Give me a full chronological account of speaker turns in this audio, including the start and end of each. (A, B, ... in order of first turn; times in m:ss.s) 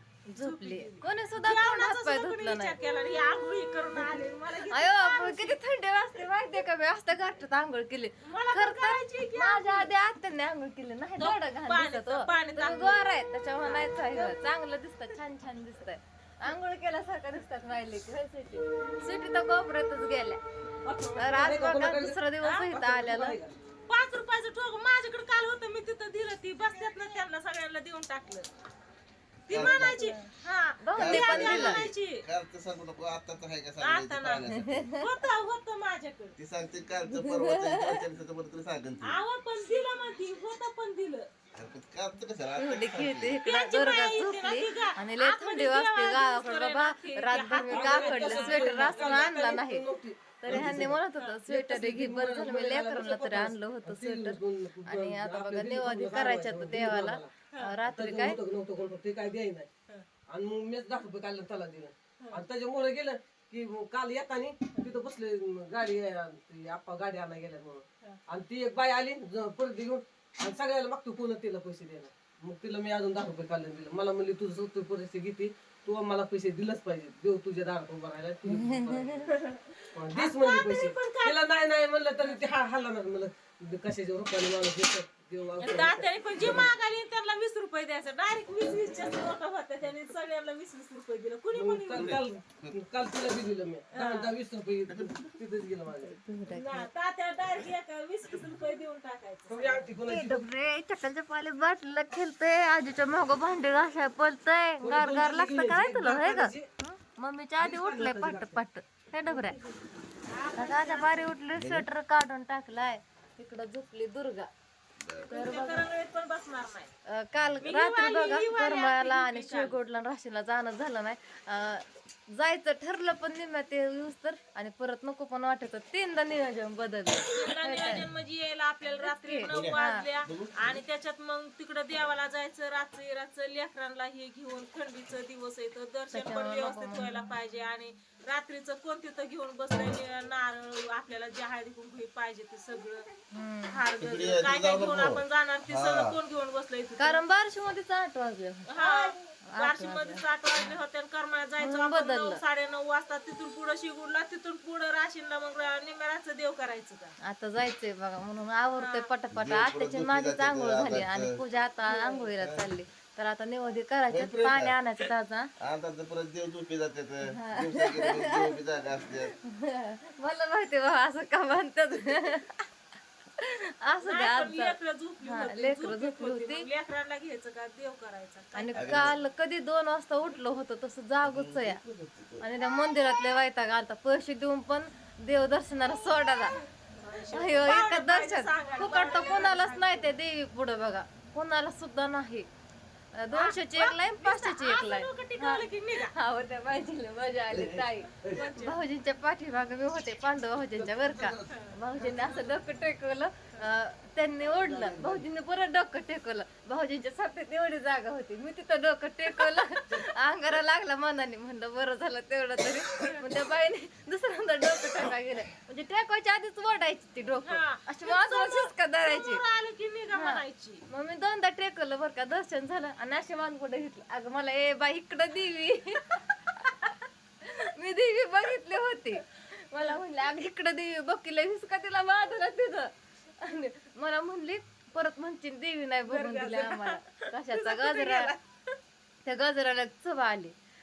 0:00.3-0:02.8 A
0:00.4-0:05.6 B
0:04.7-0:20.4 A
0:08.2-0:09.9 B
0:11.2-0:14.4 B
0:20.8-0:22.2 C
0:21.2-0:23.4 A
0:22.4-0:22.7 B
0:22.7-0:23.6 C
0:23.9-0:28.5 B
0:29.5-0:32.2 B
0:29.5-0:30.0 D
0:29.5-0:30.3 A
0:30.8-0:31.8 A
0:31.0-0:34.9 D
0:33.8-0:36.4 B
0:34.5-0:35.1 A
0:36.4-0:39.2 D
0:37.1-0:38.0 A
0:39.0-0:41.3 B
0:41.5-0:43.4 D
0:42.6-0:49.8 A
0:43.4-0:49.3 B
0:47.7-0:57.3 C
0:50.4-0:58.4 A
0:57.9-0:59.7 C
1:00.3-1:19.3 C
1:18.5-1:19.3 A
1:19.3-1:21.4 B
1:19.9-1:26.7 C
1:25.6-1:32.2 B
1:31.5-1:36.2 C
1:31.9-1:32.8 D
1:33.9-1:34.3 B
1:34.9-1:35.3 D
1:35.9-1:36.9 A
1:36.5-1:39.9 B
1:39.5-1:40.5 C
1:40.1-1:49.6 A
1:44.8-1:46.7 C
1:47.6-1:48.6 C
1:50.3-1:51.3 B
1:50.6-1:54.5 A
1:51.6-1:51.9 D
1:55.0-1:55.3 D
1:55.3-1:55.8 A
1:55.3-1:56.9 B
1:57.1-2:08.0 A
1:57.6-1:59.8 B
2:07.3-2:23.1 B
2:08.9-2:10.0 A
2:09.5-2:10.8 D
2:16.1-2:17.3 A
2:23.3-2:23.8 A
2:23.7-2:27.2 B
2:24.0-2:26.2 D
2:27.0-2:30.8 A
2:28.7-2:37.1 B
2:31.6-2:32.4 A
2:37.2-2:45.5 A
2:38.8-2:39.1 B
2:39.3-2:41.4 D
2:41.9-2:42.2 B
2:42.4-2:42.6 D
2:44.1-2:44.8 D
2:45.6-2:49.3 D
2:47.3-2:48.6 A
2:49.4-2:52.6 A
2:53.4-2:56.7 A
2:54.0-2:59.2 B
2:58.6-3:01.8 A
2:58.8-2:59.2 D
3:01.2-3:02.5 D
3:02.4-3:06.6 A
3:06.2-3:10.1 B
3:07.3-3:12.5 A
3:13.2-3:39.4 A
3:13.3-3:16.1 B
3:17.5-3:18.5 D
3:18.3-3:18.8 B
3:20.8-3:21.4 C
3:21.5-3:21.8 B
3:22.0-3:22.5 C
3:24.5-3:25.2 D
3:33.0-3:33.3 B
3:37.4-3:40.8 B
3:40.1-3:58.3 A
3:56.1-3:58.8 B
3:59.2-4:00.5 A